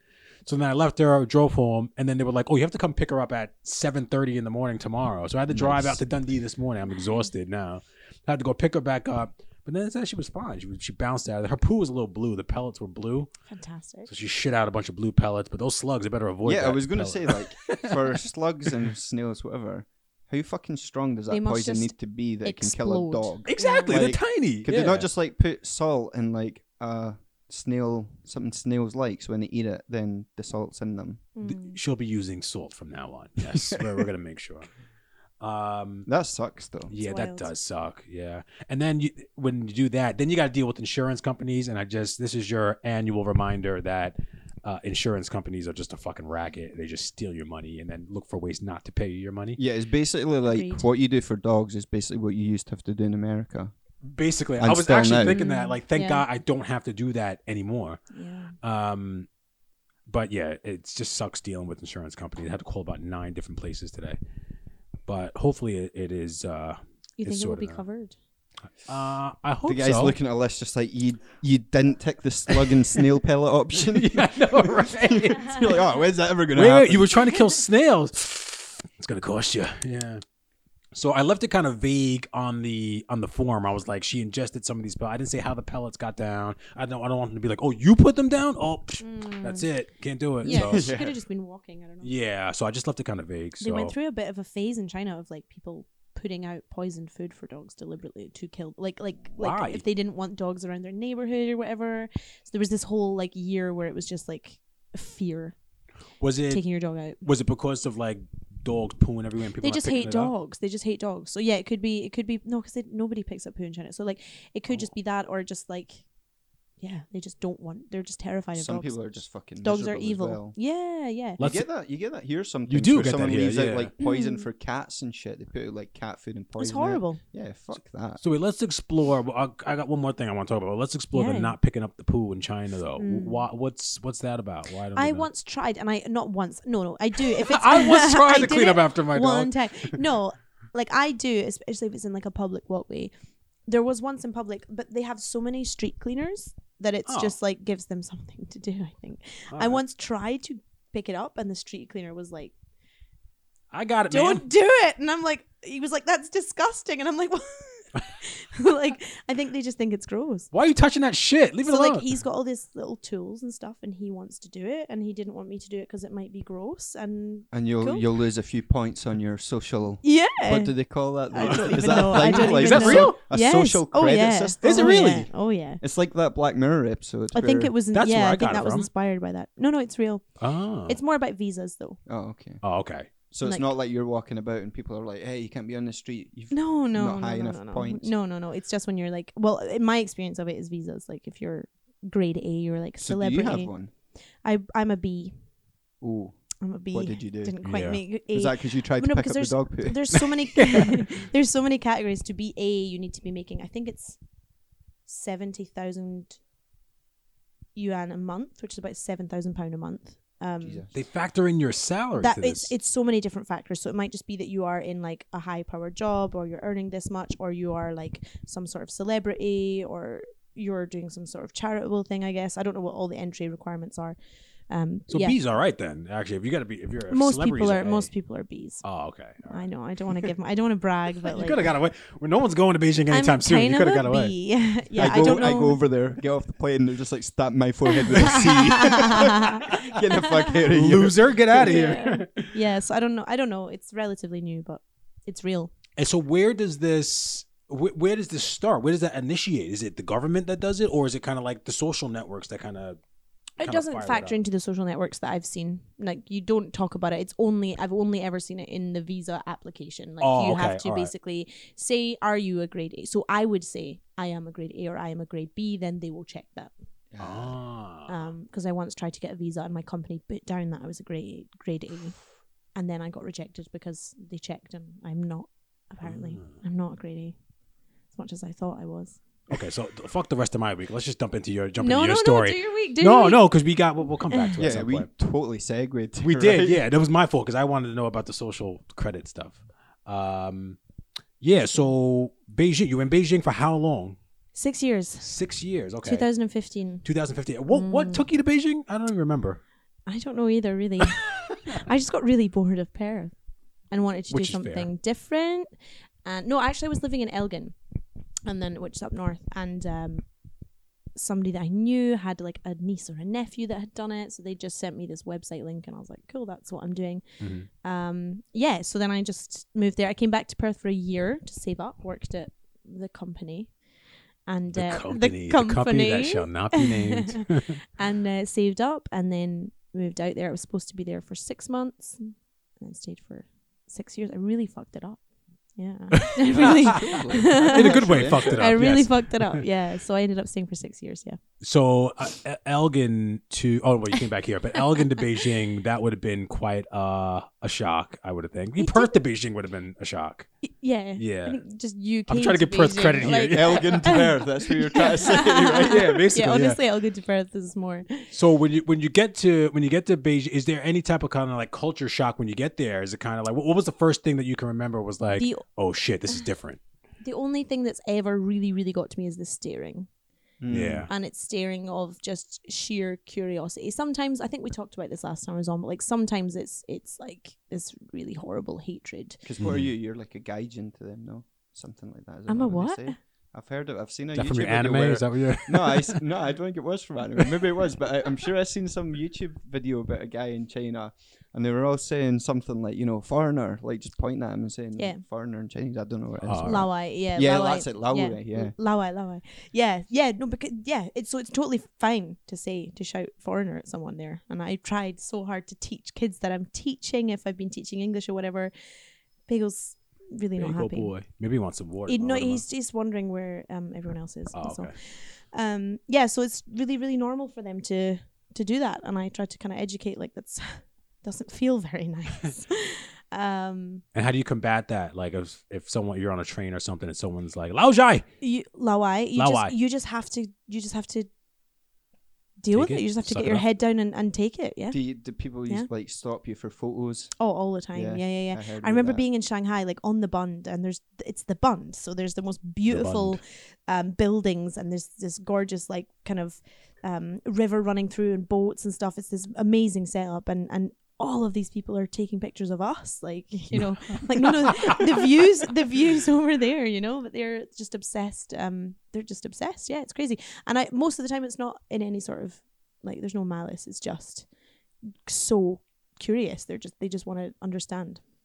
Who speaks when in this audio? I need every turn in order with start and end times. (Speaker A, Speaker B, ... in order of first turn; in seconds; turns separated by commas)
Speaker A: 0.4-13.3, Speaker B: 5.5-6.0, Speaker C: 6.9-7.3, Speaker C: 13.5-14.1, Speaker A: 14.1-18.7, Speaker B: 16.4-31.2, Speaker C: 21.3-24.0, Speaker A: 23.5-25.1, Speaker C: 31.4-31.8, Speaker A: 31.5-34.7, Speaker B: 33.5-34.1, Speaker A: 35.4-36.1, Speaker B: 36.0-36.9, Speaker C: 36.9-37.5, Speaker A: 36.9-49.6, Speaker B: 49.5-53.7, Speaker C: 50.4-50.8, Speaker A: 54.1-58.0, Speaker B: 54.6-55.4, Speaker C: 55.2-56.2, Speaker C: 58.1-58.5, Speaker A: 58.6-59.3, Speaker A: 60.1-64.2, Speaker A: 65.1-67.8, Speaker C: 67.2-68.2, Speaker A: 68.8-70.2, Speaker B: 69.6-77.2, Speaker A: 72.5-73.0, Speaker A: 73.7-75.8, Speaker A: 76.5-80.2, Speaker A: 80.9-90.9, Speaker C: 89.0-89.7, Speaker B: 90.4-91.2, Speaker C: 90.4-92.1, Speaker A: 92.0-93.9, Speaker C: 93.6-105.5, Speaker A: 99.3-99.8, Speaker A: 106.2-106.6, Speaker C: 106.5-107.2, Speaker A: 107.2-110.3, Speaker C: 109.6-116.0, Speaker C: 116.8-121.4, Speaker B: 118.5-120.6, Speaker A: 121.4-121.7, Speaker B: 121.4-128.2, Speaker A: 122.7-123.9, Speaker C: 124.0-124.5, Speaker C: 126.6-127.2, Speaker A: 128.2-135.3, Speaker C: 131.1-131.6, Speaker C: 133.0-133.4, Speaker C: 134.9-143.1, Speaker A: 137.2-140.0, Speaker C: 143.7-152.5, Speaker A: 147.1-147.3, Speaker A: 149.5-149.8, Speaker A: 153.7-154.4, Speaker C: 154.1-160.5, Speaker A: 160.5-162.1, Speaker C: 161.6-168.0, Speaker B: 167.5-177.7, Speaker C: 170.0-170.7, Speaker C: 171.3-175.8, Speaker A: 171.3-173.2, Speaker A: 174.6-175.3, Speaker C: 177.3-180.3, Speaker A: 177.9-178.9, Speaker A: 180.4-181.0, Speaker C: 180.9-182.0, Speaker B: 182.1-182.6, Speaker A: 182.6-183.1, Speaker B: 183.3-188.1, Speaker C: 186.5-193.7, Speaker B: 193.0-193.9, Speaker C: 194.4-195.4, Speaker B: 196.0-196.3, Speaker C: 196.6-204.2, Speaker B: 196.9-197.5, Speaker A: 197.6-198.0, Speaker B: 198.3-200.2, Speaker A: 200.5-201.0, Speaker C: 205.1-206.4, Speaker C: 207.7-210.8, Speaker B: 210.6-210.9, Speaker A: 210.9-212.7, Speaker C: 212.2-224.2, Speaker C: 224.7-225.4, Speaker A: 225.1-228.1, Speaker C: 227.1-228.8, Speaker A: 228.8-229.7, Speaker C: 229.5-231.7, Speaker A: 231.2-234.3, Speaker C: 233.1-235.8, Speaker B: 235.0-241.9, Speaker A: 235.0-235.3, Speaker C: 238.0-240.6, Speaker A: 238.3-238.9, Speaker A: 240.7-242.5, Speaker C: 241.6-245.7, Speaker A: 246.0-253.0, Speaker A: 253.6-254.3, Speaker C: 253.6-266.7, Speaker A: 260.2-261.1, Speaker B: 267.1-267.6, Speaker A: 267.2-268.2, Speaker C: 268.1-272.1, Speaker C: 272.7-277.4, Speaker A: 276.0-276.5, Speaker C: 278.1-279.2, Speaker A: 279.5-285.1, Speaker C: 281.8-283.4, Speaker C: 284.3-284.6, Speaker B: 284.6-286.8, Speaker A: 286.2-290.8, Speaker A: 291.4-294.2, Speaker C: 294.5-295.3, Speaker A: 295.2-296.3, Speaker C: 296.0-297.0, Speaker A: 297.0-299.6, Speaker C: 297.7-298.2, Speaker C: 300.1-303.3, Speaker C: 303.9-305.7, Speaker A: 304.3-304.9, Speaker C: 306.2-307.7, Speaker C: 308.4-310.2, Speaker C: 311.1-317.2, Speaker A: 317.4-317.7, Speaker C: 317.8-323.7, Speaker C: 324.4-327.4, Speaker A: 324.7-327.8, Speaker C: 327.9-335.2, Speaker C: 335.8-341.4, Speaker A: 336.1-339.6, Speaker B: 336.4-338.9, Speaker A: 341.6-350.5, Speaker C: 348.8-349.1, Speaker C: 350.6-358.3, Speaker A: 351.2-351.6, Speaker A: 352.3-354.2, Speaker B: 353.5-356.2, Speaker A: 355.6-356.8, Speaker A: 358.3-366.8, Speaker C: 365.4-365.6, Speaker C: 367.2-370.1, Speaker B: 370.6-371.1, Speaker A: 370.7-371.1, Speaker C: 371.1-379.4, Speaker B: 379.4-398.7, Speaker A: 379.6-379.9, Speaker C: 382.5-383.1, Speaker A: 384.3-386.2, Speaker C: 395.0-395.2, Speaker A: 396.4-396.9, Speaker C: 396.6-408.7, Speaker C: 409.5-411.1, Speaker A: 410.6-412.6, Speaker C: 412.1-424.0, Speaker A: 414.5-414.9, Speaker A: 424.1-428.2, Speaker C: 428.4-431.3, Speaker A: 429.4-429.7, Speaker C: 432.6-435.0, Speaker A: 432.7-433.6, Speaker B: 434.9-437.3, Speaker C: 437.4-464.5, Speaker B: 437.9-439.2, Speaker A: 442.9-443.4, Speaker A: 453.7-455.2, Speaker C: 465.2-468.2